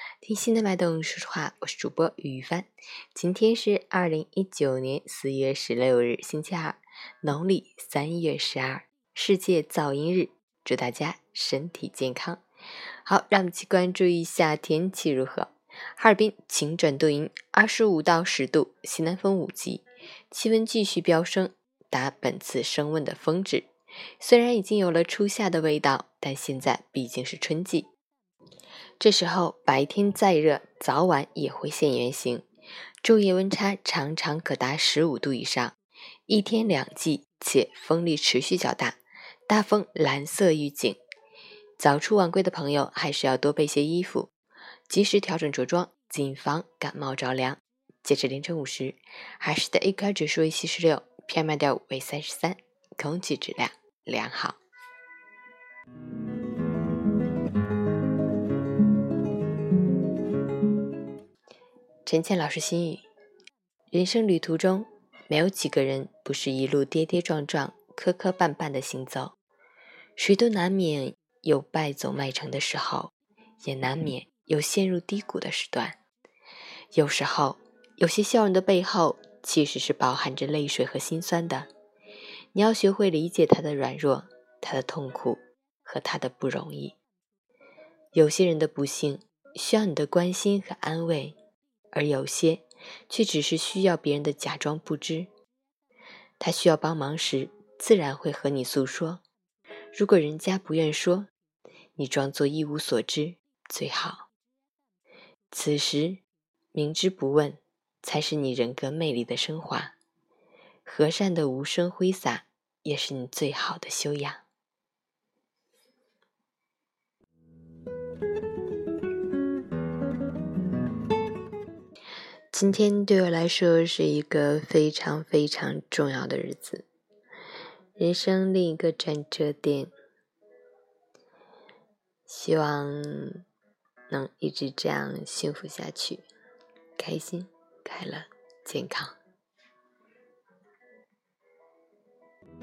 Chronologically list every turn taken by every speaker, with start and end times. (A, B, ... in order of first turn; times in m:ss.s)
0:00.2-0:12.4 A
0:13.0-0:23.7 A
0:24.2-0:27.9 A
0:29.0-0:32.4 A
0:33.0-0:35.8 A
0:36.3-0:41.0 A
0:41.8-0:44.3 A
0:44.9-0:54.6 A
1:02.1-1:03.1 A
1:03.9-1:09.4 A
1:10.2-1:16.0 A
1:16.9-1:21.7 A
1:22.6-1:27.0 A
1:28.1-1:31.3 A
1:31.9-1:35.3 A
1:36.4-1:39.2 A
1:39.9-1:41.3 A
1:42.0-1:44.3 A
1:45.5-1:46.2 A
1:46.7-1:50.0 A
1:50.8-1:54.4 A
2:02.5-2:06.8 A
2:08.0-2:09.9 A
2:12.3-2:13.4 A
2:14.1-2:16.2 A
2:17.0-2:19.1 A